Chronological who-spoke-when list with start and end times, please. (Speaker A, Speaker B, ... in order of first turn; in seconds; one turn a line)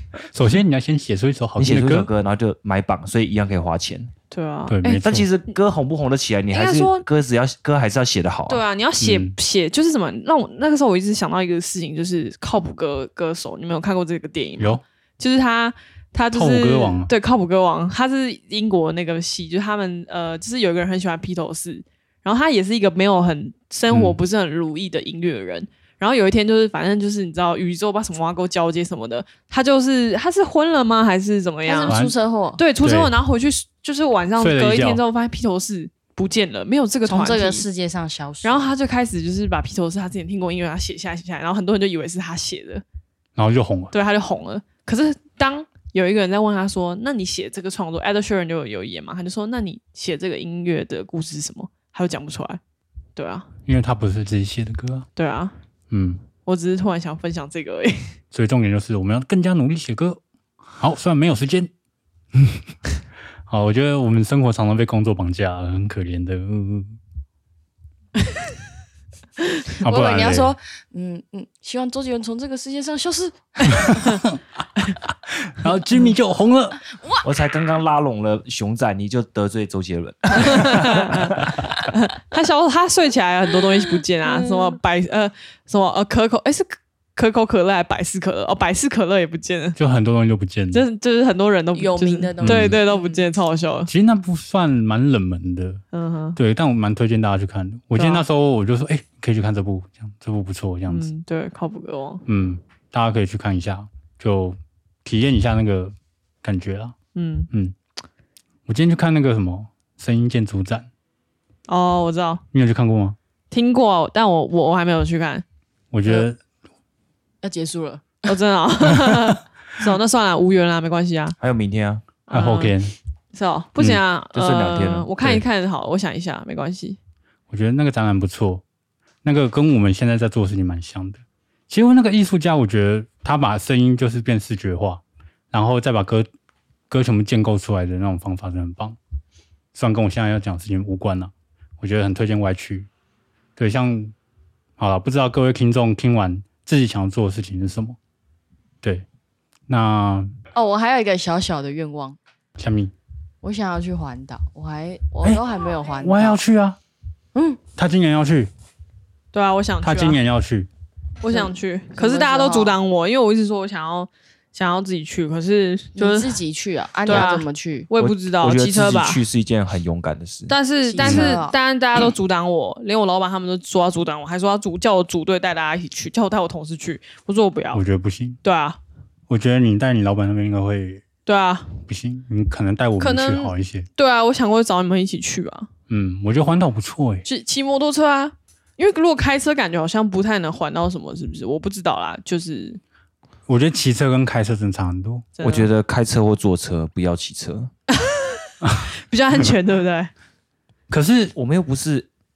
Speaker A: 0.3-2.1
Speaker B: 1.6-4.1
Speaker C: 4.3-5.0
Speaker A: 4.7-5.3
Speaker B: 5.0-8.6
Speaker C: 6.5-7.1
Speaker C: 8.5-32.0
Speaker A: 9.0-9.4
Speaker A: 16.3-17.1
Speaker A: 23.9-24.2
Speaker D: 31.7-32.6
Speaker C: 32.6-37.7
Speaker A: 32.8-33.1
Speaker A: 34.4-35.0
Speaker D: 37.1-38.7
Speaker C: 38.4-42.8
Speaker A: 43.4-43.9
Speaker C: 43.9-52.6
Speaker C: 53.2-53.5
Speaker A: 53.7-55.1
Speaker C: 55.2-55.6
Speaker A: 55.9-56.2
Speaker C: 56.5-58.1
Speaker A: 58.3-60.2
Speaker A: 60.8-61.7
Speaker A: 63.5-67.0
Speaker A: 69.8-70.5
Speaker D: 69.8-74.2
Speaker A: 75.5-76.8
Speaker B: 77.2-81.3
Speaker C: 80.4-81.3
Speaker C: 81.9-89.8
Speaker D: 84.2-84.8
Speaker A: 89.8-90.8
Speaker C: 90.7-93.9
Speaker D: 91.8-93.3
Speaker A: 92.4-92.8
Speaker A: 93.9-95.8
Speaker C: 95.9-96.4
Speaker A: 96.4-101.1
Speaker C: 98.0-98.2
Speaker C: 100.9-102.3
Speaker A: 102.3-107.0
Speaker C: 107.2-107.5
Speaker A: 107.5-107.8
Speaker A: 108.7-110.9
Speaker C: 111.7-112.4
Speaker A: 112.5-113.2
Speaker C: 113.5-115.4
Speaker A: 115.9-116.4
Speaker D: 117.4-118.3
Speaker C: 118.2-121.4
Speaker B: 121.4-122.0
Speaker C: 122.3-122.8
Speaker A: 122.3-122.9
Speaker C: 123.3-127.0
Speaker B: 124.3-125.4
Speaker A: 127.5-128.6
Speaker A: 129.2-136.3
Speaker A: 136.9-139.0
Speaker A: 139.7-142.9
Speaker A: 143.6-144.1
Speaker A: 144.8-148.0
Speaker A: 149.7-150.3
Speaker D: 150.5-152.2
Speaker A: 152.6-152.9
Speaker D: 153.4-156.4
Speaker A: 156.0-156.8
Speaker D: 157.3-157.6
Speaker A: 157.8-158.5
Speaker C: 159.3-160.2
Speaker A: 159.8-160.7
Speaker C: 161.2-166.4
Speaker D: 161.3-162.8
Speaker D: 166.0-167.9
Speaker C: 167.1-169.2
Speaker B: 168.0-170.6
Speaker C: 170.5-177.8
Speaker D: 170.9-171.6
Speaker A: 171.0-171.4
Speaker A: 177.7-178.4
Speaker C: 178.4-178.8
Speaker A: 179.3-181.0
Speaker C: 181.3-181.8
Speaker A: 181.9-183.9
Speaker C: 183.0-185.7
Speaker A: 185.9-187.2
Speaker C: 187.2-192.8
Speaker A: 193.5-195.3
Speaker C: 195.4-195.7
Speaker B: 195.4-197.7
Speaker C: 198.1-200.1
Speaker A: 200.9-201.3
Speaker B: 201.3-202.1